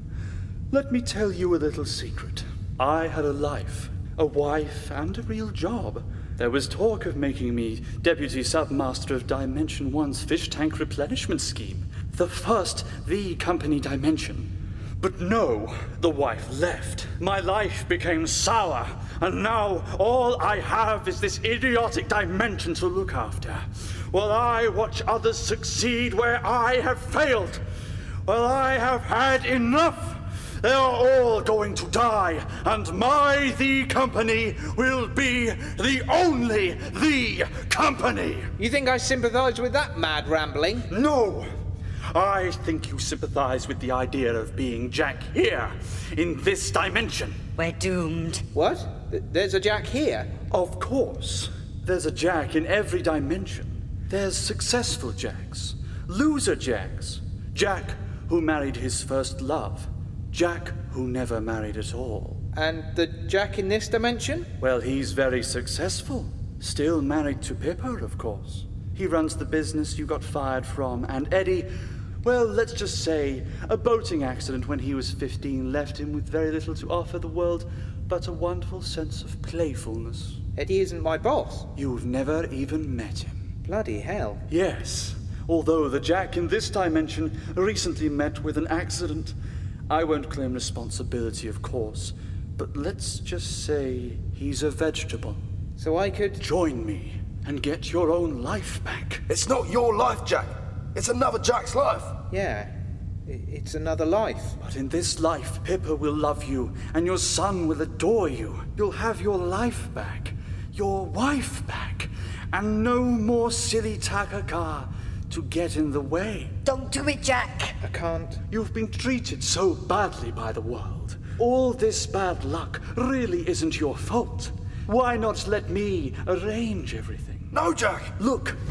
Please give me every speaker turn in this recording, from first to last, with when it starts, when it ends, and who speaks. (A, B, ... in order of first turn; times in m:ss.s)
0:00.7-0:27.6 A
0:28.3-0:38.5 A
0:38.6-0:40.9 B
0:40.9-0:41.5 A
0:42.1-0:47.4 A
0:47.6-0:48.4 C
0:48.5-0:50.3 B
0:50.5-1:02.4 A
1:02.5-1:04.5 B
1:04.6-1:11.7 A
1:12.2-1:20.4 A
1:20.6-1:21.7 B
1:21.8-1:23.4 A
1:23.6-1:24.4 B
1:24.5-1:29.4 A
1:29.9-1:35.4 A
1:35.8-1:36.4 B
1:36.4-1:39.2 A
1:39.3-1:42.2 D
1:42.3-1:42.7 B
1:43.3-1:44.6 B
1:44.6-1:56.5 A
1:56.6-1:57.8 C
1:57.8-1:58.4 B
1:58.5-2:07.5 A
2:07.5-2:08.2 D
2:08.2-2:08.6 A